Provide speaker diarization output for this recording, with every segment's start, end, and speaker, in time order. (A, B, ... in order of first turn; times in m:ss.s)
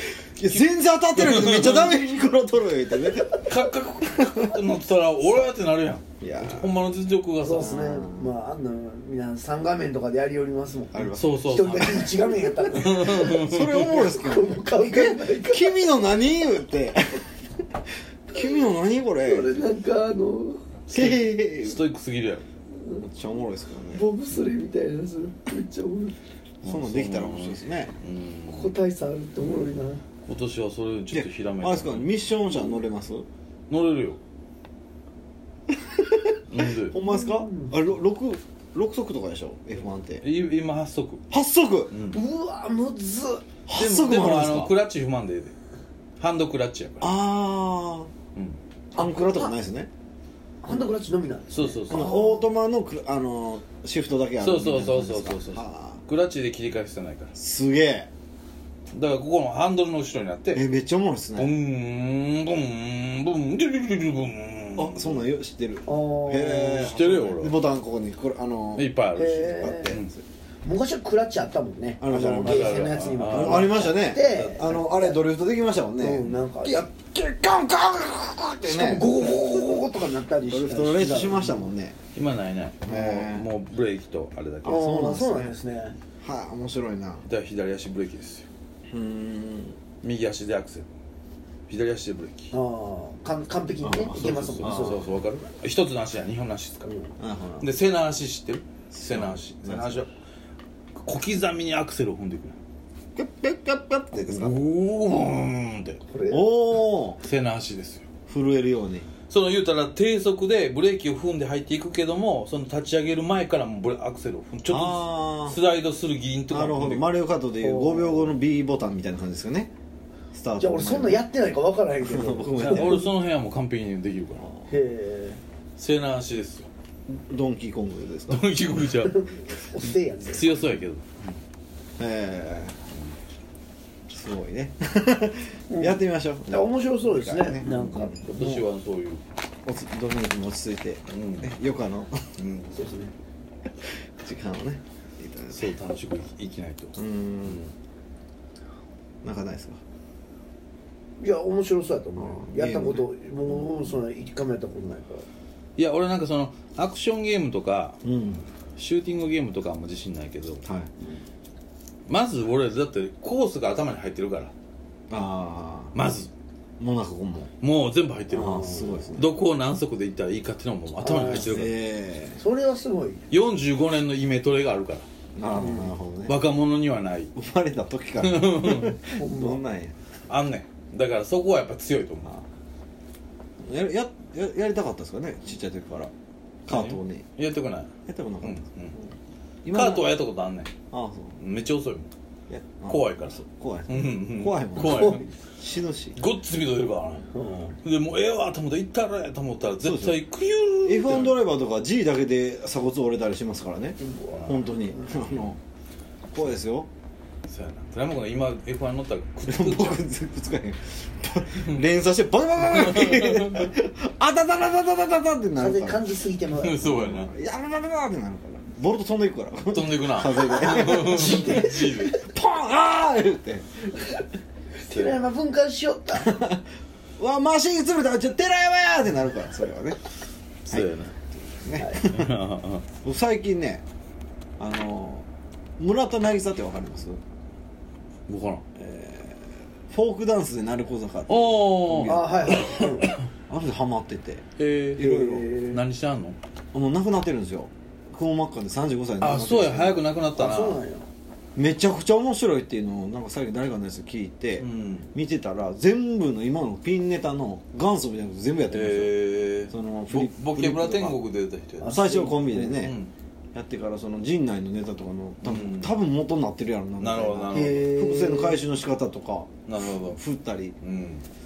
0:00.4-0:03.4 A
0:01.2-0:02.1 B
0:03.1-0:07.7 B
0:06.2-0:06.8 A
0:07.4-0:16.0 C
0:07.6-0:08.3 A
0:10.9-0:11.4 A
0:11.1-0:14.0 B
0:12.9-0:17.3 A
0:18.3-0:19.6 A
0:19.2-0:20.6 C
0:20.9-0:22.5 B
0:20.9-0:21.8 A
0:22.7-0:23.0 C
0:23.0-0:24.1 A
0:23.9-0:26.2 C
0:26.6-0:27.9 A
0:26.6-0:28.8 B
0:28.5-0:30.0 C
0:30.3-0:32.2 B
0:31.1-0:33.3 A
0:33.7-0:34.2 B
0:35.7-0:40.3 A
0:36.5-0:37.0 B
0:37.0-0:37.8 C
0:40.2-0:41.2 B
0:41.3-0:42.0 A
0:41.9-0:42.2 B
0:42.1-0:43.4 C
0:43.7-0:44.8 A
0:43.8-0:45.5 B
0:46.2-0:47.1 B
0:47.0-0:48.1 A
0:49.0-0:49.5 C
0:49.0-0:49.9 A
0:50.6-0:52.4 C
0:51.5-0:52.3 B
0:51.9-0:56.0 A
0:54.4-0:57.3 B
0:57.4-0:58.1 A
0:58.9-1:00.6 B
1:00.5-1:01.6 A
1:01.4-1:05.3 B
1:04.8-1:10.2 A
1:05.9-1:06.9 C
1:06.8-1:07.6 B
1:08.8-1:10.1 B
1:09.1-1:10.0 C
1:10.6-1:15.2 C
1:12.0-1:19.5 A
1:12.4-1:14.6 B
1:16.0-1:16.9 C
1:18.6-1:21.7 C
1:20.4-1:22.0 A
1:22.2-1:25.2 B
1:22.8-1:23.5 A
1:24.6-1:25.5 A
1:24.7-1:26.0 C
1:26.2-1:27.3 A
1:27.2-1:28.5 B
1:28.9-1:29.8 A
1:30.0-1:30.9 B
1:31.7-1:32.5 B
1:32.5-1:35.1 C
1:33.8-1:35.1 A
1:34.1-1:37.0 B
1:37.2-1:37.7 A
1:37.6-1:40.1 B
1:38.9-1:40.1 A
1:41.0-1:42.6 B
1:43.2-1:44.6 A
1:44.2-1:46.0 B
1:46.1-1:46.5 C
1:46.3-1:47.2 A
1:47.2-1:48.1 B
1:48.3-1:49.1 A
1:49.3-1:57.1 B
1:54.7-1:55.6 A
1:56.5-1:59.7 A
1:57.6-1:58.3 C
2:00.3-2:01.2 A
2:00.6-2:03.0 C
2:02.0-2:03.1 A
2:02.6-2:04.5 B
2:04.4-2:04.7 A
2:04.7-2:05.4 C
2:05.8-2:06.7 B
2:07.1-2:08.4 A
2:08.3-2:09.2 B
2:09.0-2:10.5 C
2:09.9-2:11.4 B
2:12.0-2:12.8 A
2:14.1-2:18.7 A
2:15.7-2:18.2 C
2:17.6-2:19.2 B
2:19.6-2:22.3 A
2:21.1-2:21.5 B
2:22.4-2:22.8 B
2:22.7-2:23.1 C
2:24.2-2:25.8 A
2:25.5-2:27.6 B
2:27.0-2:27.7 A
2:29.2-2:29.8 A
2:31.2-2:35.3 C
2:32.2-2:33.9 A
2:35.8-2:38.0 B
2:38.0-2:38.5 A
2:38.8-2:40.6 B
2:40.6-2:40.9 A
2:42.1-2:44.5 B
2:45.1-2:46.0 A
2:45.9-2:46.3 B
2:46.8-2:47.5 A
2:47.6-2:51.8 B
2:48.3-2:49.3 A
2:48.3-2:49.2 C
2:51.0-2:51.6 C
2:51.1-2:52.4 A
2:52.4-2:53.3 C
2:53.3-2:55.1 B
2:55.4-2:56.4 A
2:55.5-2:55.9 C
2:56.3-2:57.3 B
2:57.4-3:00.0 A
2:58.2-2:59.0 B
2:59.1-2:59.6 C
3:00.3-3:02.4 B
3:03.6-3:06.1 A
3:06.7-3:07.3 A
3:06.7-3:09.0 B
3:08.1-3:09.0 A
3:09.6-3:10.1 A
3:09.7-3:10.7 B
3:10.9-3:11.4 A
3:11.4-3:12.1 B
3:12.5-3:16.2 A
3:12.9-3:15.2 B
3:14.8-3:15.3 C
3:16.2-3:17.3 B
3:17.3-3:17.8 C
3:17.8-3:21.4 B
3:19.8-3:20.2 A
3:20.8-3:25.6 A
3:24.0-3:25.1 C
3:24.3-3:24.6 B
3:26.3-3:26.9 A
3:27.5-3:30.0 B
3:29.5-3:36.0 A
3:32.6-3:33.7 B
3:35.6-3:36.8 C
3:36.6-3:37.3 B
3:36.8-3:43.8 A
3:39.7-3:42.2 B
3:40.7-3:42.2 C
3:44.8-3:46.4 C
3:44.9-3:45.2 B
3:46.2-3:46.6 A
3:47.2-3:50.0 A
3:50.7-3:51.1 B
3:50.7-3:52.4 A
3:51.8-3:52.0 C
3:52.0-3:52.8 B
3:53.0-3:53.8 A
3:54.6-3:55.3 A
3:55.8-3:57.2 A
3:58.3-3:58.6 B
3:58.8-4:02.8 A
4:01.3-4:03.2 B
4:02.1-4:03.1 C
4:03.5-4:05.5 A
4:04.6-4:05.0 B
4:05.0-4:05.8 C
4:05.7-4:06.4 B
4:06.7-4:10.0 A
4:09.2-4:10.8 B
4:10.4-4:11.1 C
4:11.6-4:19.2 A
4:14.6-4:15.1 B
4:18.7-4:22.0 B
4:19.7-4:21.2 A
4:21.8-4:22.8 C
4:21.9-4:23.0 A
4:22.7-4:23.1 B
4:23.5-4:30.8 A
4:25.4-4:25.9 B
4:27.0-4:27.9 B
4:27.5-4:28.6 C
4:29.7-4:30.2 B
4:30.8-4:31.2 B